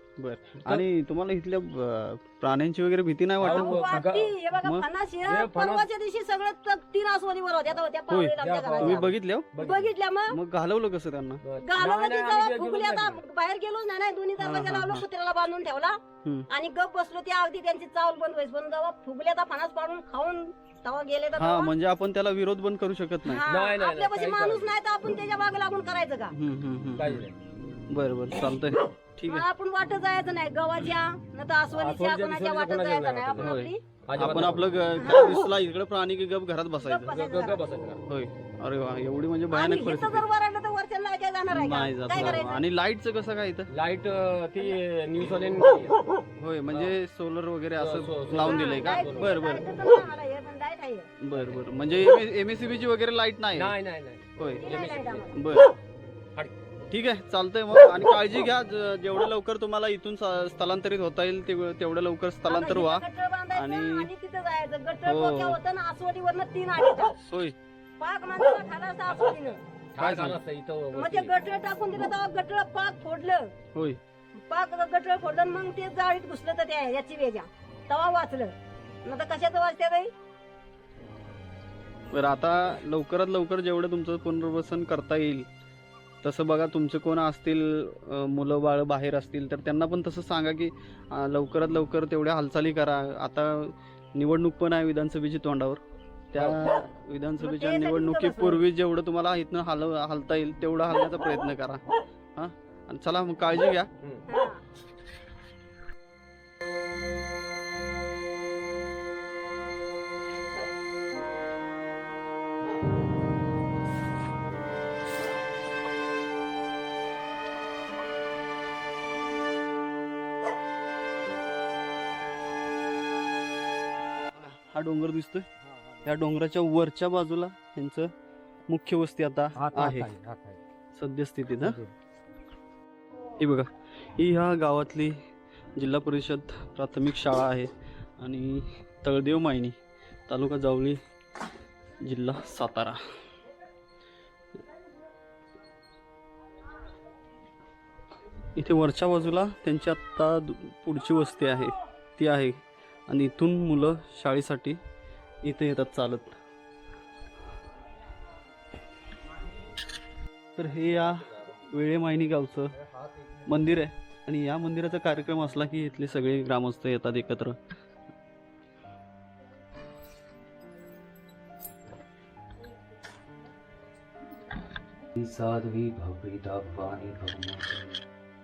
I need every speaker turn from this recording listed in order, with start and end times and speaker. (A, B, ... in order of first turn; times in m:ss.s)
0:00.2-0:04.0 A
0:03.4-0:04.3 B
0:03.5-0:10.4 C
0:04.6-0:04.8 A
0:05.2-0:05.9 B
0:08.1-0:09.5 A
0:08.4-0:09.9 B
0:10.3-0:11.4 A
0:11.4-0:13.2 B
0:11.6-0:21.7 C
0:14.4-0:15.0 A
0:21.4-0:23.4 A
0:23.2-0:26.3 C
0:23.5-0:24.7 B
0:26.3-0:27.2 A
0:27.0-0:27.4 B
0:27.9-0:29.4 A
0:29.2-0:34.4 C
0:31.7-0:34.8 B
0:33.4-0:37.2 A
0:35.0-0:35.5 C
0:36.8-0:37.6 C
0:37.1-0:38.0 B
0:38.1-0:40.2 A
0:39.5-0:42.6 C
0:41.5-0:43.7 A
0:43.7-0:46.0 B
0:46.4-0:49.6 A
0:46.7-0:47.0 B
0:47.8-0:49.4 B
0:48.4-0:51.1 C
0:51.2-0:53.7 A
0:51.3-0:51.6 B
0:53.5-0:55.3 B
0:54.4-0:54.6 A
0:54.6-0:55.4 C
0:55.3-0:55.7 A
0:56.9-1:04.1 A
1:02.5-1:07.2 C
1:05.0-1:05.6 A
1:07.2-1:07.6 A
1:08.0-1:09.6 C
1:09.9-1:11.3 B
1:10.0-1:10.4 A
1:10.9-1:13.5 C
1:13.7-1:14.0 A
1:14.5-1:20.1 C
1:22.1-1:25.5 A
1:26.2-1:41.8 A
1:36.3-1:36.6 B
1:37.4-1:38.6 C
1:42.4-1:43.9 A
1:44.0-1:44.2 B
1:44.3-1:44.6 C
2:04.5-2:05.4 A
2:05.6-2:06.1 B
2:06.0-2:08.1 A
2:08.7-2:10.1 A
2:09.5-2:10.6 B
2:10.9-2:11.8 A
2:11.5-2:11.9 B
2:13.4-2:15.2 A
2:15.8-2:19.8 A
2:20.3-2:21.0 A
2:22.0-2:23.0 A
2:28.6-2:34.8 A
2:35.4-2:36.4 A
2:40.6-2:42.7 A
2:43.4-2:47.6 A
2:55.2-2:58.0 D